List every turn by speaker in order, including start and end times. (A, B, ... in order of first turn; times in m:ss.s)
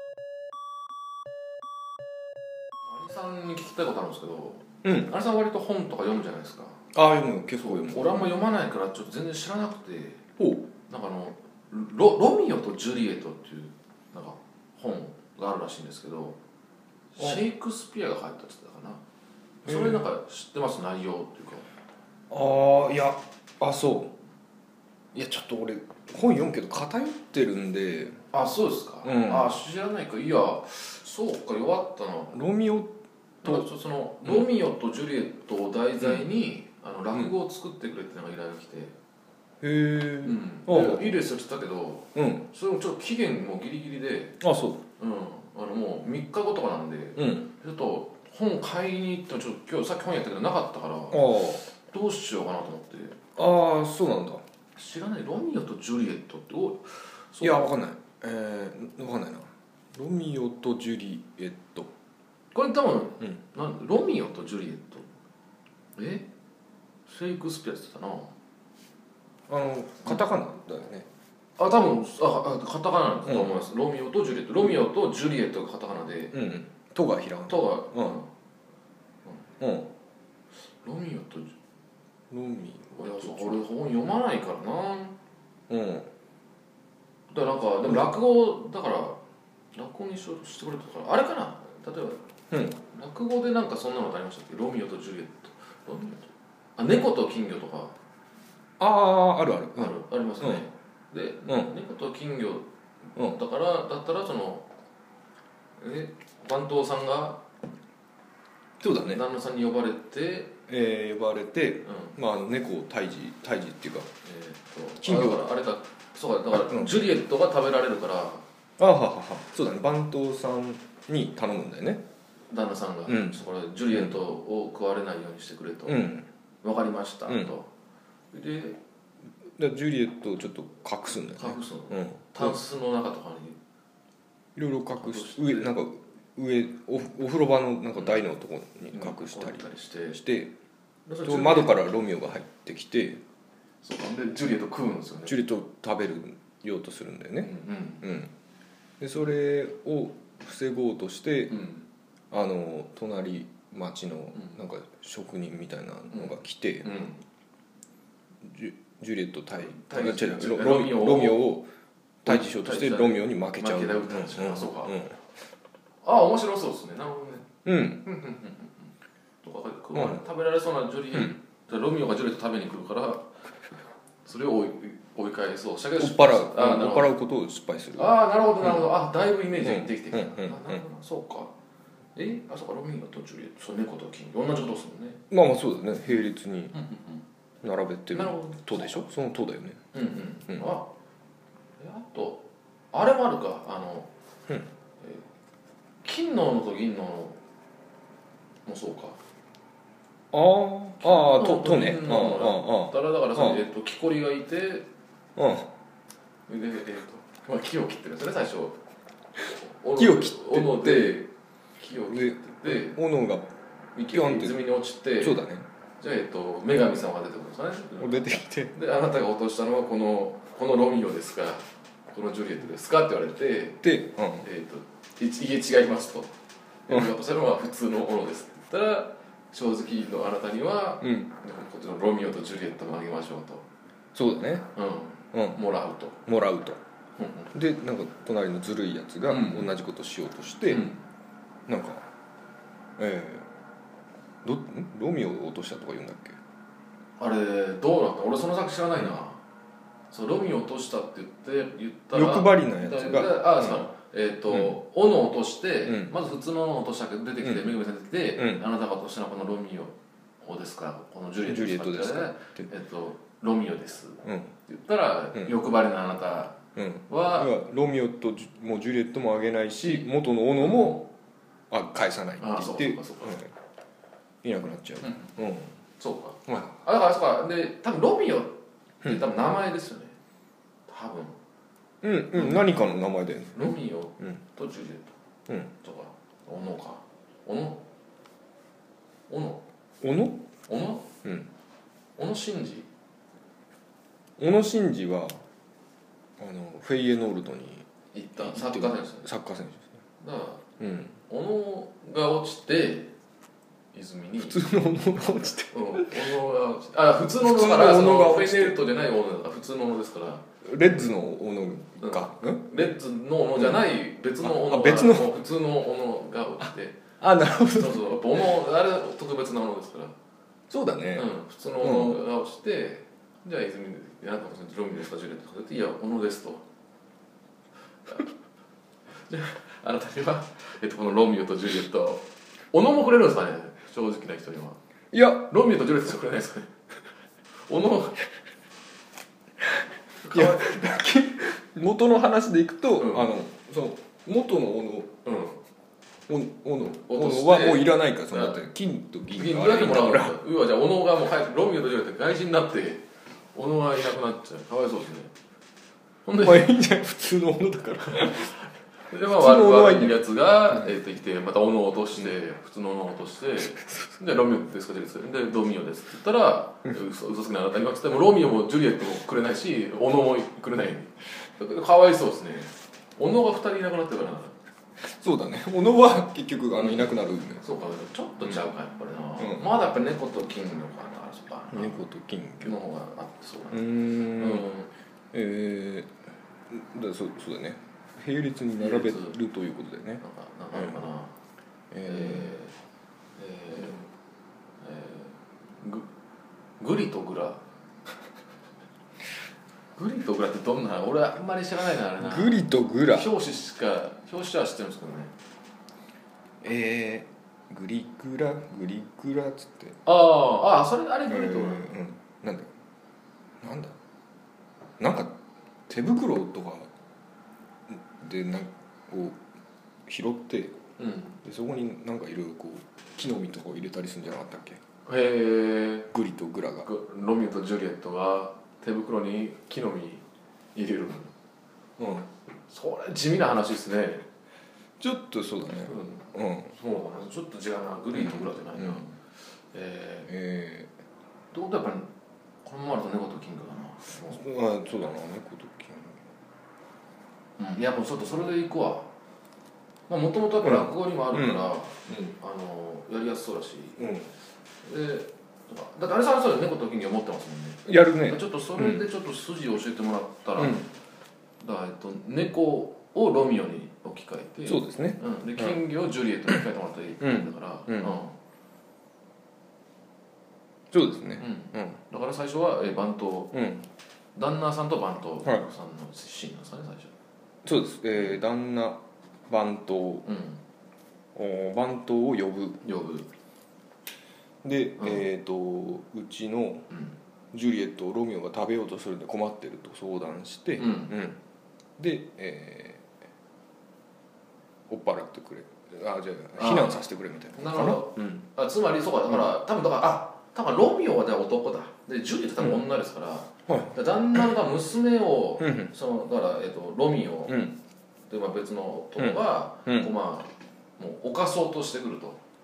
0:02.8-0:06.8 A
0:04.8-0:05.1 B
0:06.9-0:08.3 B
0:07.6-0:10.2 A
0:10.4-0:10.7 B
0:10.9-0:16.4 A
0:17.2-0:19.0 A
0:19.6-0:21.7 A
0:19.7-0:20.0 B
0:22.3-0:24.1 B
0:25.1-0:28.2 B
0:28.3-0:32.4 A
0:29.0-0:29.6 B
0:32.3-0:33.7 B
0:33.4-0:38.9 A
0:39.6-0:41.2 B
0:40.2-0:44.4 A
0:42.1-0:42.4 B
0:44.4-0:44.8 B
0:45.0-0:53.2 A
0:47.2-0:47.5 B
0:51.1-0:51.6 B
0:53.4-0:54.4 B
0:54.7-0:57.7 A
0:57.4-1:01.9 B
1:02.5-1:05.0 A
1:06.0-1:06.3 A
1:07.1-1:08.3 A
1:09.5-1:11.1 B
1:11.6-1:16.4 A
1:13.2-1:13.6 B
1:16.3-1:18.2 B
1:17.5-1:18.3 A
1:19.2-1:19.5 A
1:19.6-1:19.9 B
1:20.7-1:21.5 A
1:22.3-1:23.6 B
1:23.0-1:25.1 A
1:25.7-1:26.1 B
1:27.3-1:29.2 A
1:29.7-1:32.2 A
1:32.5-1:32.8 B
1:32.8-1:37.9 A
1:38.8-1:40.6 B
1:39.8-1:44.7 A
1:41.4-1:41.7 B
1:43.2-1:43.4 B
1:45.8-1:47.4 A
1:48.8-1:49.2 B
1:49.0-1:50.5 A
1:50.7-1:54.1 B
1:51.8-1:52.2 A
1:54.2-1:58.4 A
1:55.0-1:55.5 B
1:56.7-1:57.0 B
1:58.8-2:02.0 B
2:02.5-2:06.1 A
2:03.1-2:03.4 B
2:03.9-2:04.2 B
2:05.8-2:06.3 B
2:06.6-2:07.7 A
2:07.2-2:07.5 B
2:08.3-2:08.8 A
2:09.6-2:12.6 B
2:11.4-2:13.6 A
2:14.6-2:20.5 B
2:15.0-2:15.7 A
2:18.0-2:18.2 A
2:18.9-2:20.2 A
2:21.1-2:21.8 A
2:21.2-2:23.2 B
2:23.8-2:25.4 A
2:25.2-2:28.3 B
2:27.4-2:28.0 A
2:29.0-2:31.6 B
2:31.5-2:31.8 A
2:32.3-2:37.0 B
2:36.1-2:37.2 A
2:38.4-2:41.7 B
2:39.7-2:41.4 A
2:42.2-2:45.2 B
2:42.2-2:45.0 A
2:46.0-2:48.9 A
2:47.6-2:48.0 B
2:49.4-2:53.3 A
2:49.9-2:50.2 B
2:54.2-2:57.1 A
2:56.0-2:58.8 B
2:58.0-3:01.5 A
2:59.5-3:00.8 B
3:02.1-3:05.2 A
3:05.3-3:06.8 B
3:06.7-3:07.2 A
3:07.6-3:09.8 B
3:08.1-3:09.0 A
3:09.9-3:10.9 A
3:11.8-3:14.1 A
3:15.0-3:15.3 A
3:16.0-3:17.4 A
3:18.6-3:19.2 A
3:20.3-3:23.6 B
3:21.0-3:24.9 A
3:25.4-3:25.7 B
3:26.5-3:28.8 A
3:29.5-3:33.0 A
3:30.0-3:31.3 B
3:32.1-3:33.5 B
3:33.9-3:35.4 A
3:34.1-3:34.6 B
3:35.2-3:35.7 B
3:36.0-3:43.8 A
3:38.0-3:38.8 B
3:43.8-3:44.5 B
3:44.4-3:46.3 A
3:46.9-3:53.7 A
3:51.0-3:51.3 B
3:54.1-3:54.7 B
3:54.7-3:56.2 A
3:55.3-3:55.6 B
3:56.2-3:56.8 B
3:57.2-3:57.5 A
3:57.5-4:00.9 B
3:59.3-3:59.7 A
4:00.7-4:01.0 A
4:01.7-4:02.0 B
4:03.0-4:03.4 B
4:04.4-4:06.4 B
4:07.2-4:09.4 A
4:10.1-4:27.5 A
4:12.1-4:13.8 B
4:14.5-4:14.8 B
4:15.8-4:16.1 B
4:17.4-4:17.7 B
4:18.4-4:18.6 B
4:21.4-4:22.7 B
4:24.2-4:24.5 B
4:26.8-4:31.1 B
4:29.8-4:30.1 A
4:30.6-4:31.0 A
4:31.7-4:33.5 B
4:32.4-4:33.4 A
4:34.4-4:35.7 B
4:35.0-4:35.3 A
4:36.0-4:40.1 A
4:36.4-4:36.8 B
4:40.9-4:41.3 A
4:42.0-4:44.4 B
4:42.3-4:42.6 A
4:43.5-4:45.1 A
4:45.8-4:47.8 A
4:49.3-4:49.6 A
4:50.0-4:50.4 B
4:50.6-4:51.1 A
4:51.2-4:51.5 B
4:52.2-4:52.9 A
4:54.4-4:55.4 B
4:56.4-4:57.8 B
4:58.1-4:59.3 A
4:58.4-4:59.9 B
5:00.2-5:00.6 A
5:00.8-5:01.1 B
5:01.2-5:03.1 A
5:03.9-5:04.6 A
5:04.4-5:06.3 B
5:05.7-5:10.4 A
5:07.4-5:08.8 B
5:10.6-5:12.7 B
5:12.0-5:17.0 A
5:14.4-5:15.3 B
5:17.2-5:18.3 B
5:17.7-5:20.1 A
5:20.7-5:22.2 B
5:21.1-5:26.6 A
5:29.3-5:34.8 A
5:35.1-5:35.5 B
5:35.5-5:36.7 A
5:37.6-5:38.2 A
5:40.2-5:40.8 A
5:40.2-5:45.1 B
5:43.0-5:43.3 A
5:45.2-5:45.6 A
5:46.3-5:50.4 B
5:47.0-5:48.6 A
5:49.3-5:55.3 A
5:56.2-5:56.7 A
5:56.4-5:58.6 B
5:58.2-5:58.5 A
5:59.1-6:14.5 A
5:59.3-6:00.8 B
6:15.0-6:17.6 B
6:16.8-6:22.0 A
6:21.7-6:22.8 B
6:22.6-6:24.9 A
6:23.7-6:24.7 B
6:25.3-6:31.0 B
6:28.8-6:29.4 A
6:30.2-6:31.4 A
6:31.9-6:32.5 B
6:32.1-6:32.8 A
6:33.4-6:34.0 A
6:34.8-6:36.1 A
6:36.8-6:37.6 A
6:39.9-6:45.3 A
6:42.2-6:43.3 B
6:46.6-6:50.0 B
6:50.0-6:51.9 A
6:51.3-6:52.7 B
6:53.6-6:54.0 B
6:55.0-6:55.4 B
6:55.9-6:56.9 B
6:58.2-6:59.4 B
7:00.1-7:00.8 B
7:01.0-7:01.4 A
7:01.4-7:04.8 B
7:05.0-7:06.1 A
7:06.1-7:06.9 B
7:06.8-7:11.3 A
7:12.0-7:12.3 B
7:12.5-7:14.2 A
7:15.0-7:16.7 B
7:15.8-7:20.3 A
7:18.1-7:19.0 B
7:20.3-7:20.9 B
7:21.5-7:22.1 A
7:22.6-7:24.4 A
7:24.2-7:26.2 B
7:27.6-7:29.1 A
7:30.1-7:34.1 A
7:30.6-7:32.3 B
7:34.0-7:34.3 B
7:34.8-7:40.8 A
7:37.8-7:39.0 B
7:40.6-7:40.9 B
7:41.6-7:48.3 A
7:44.6-7:45.8 B
7:47.2-7:48.1 B
7:50.9-7:52.0 B
7:51.4-7:53.6 A
7:53.5-7:53.8 B
7:54.3-7:57.1 A
7:57.6-8:00.3 B
8:00.2-8:00.6 A
8:01.3-8:02.8 B
8:02.8-8:03.3 A
8:04.6-8:06.9 B
8:06.9-8:07.2 A
8:07.5-8:11.4 B
8:10.8-8:11.1 A
8:12.0-8:13.0 B
8:14.9-8:18.4 B
8:16.6-8:17.0 A
8:17.5-8:27.7 A
8:23.7-8:24.0 B
8:25.6-8:25.9 B
8:27.5-8:27.7 B
8:28.3-8:32.4 A
8:29.2-8:30.1 B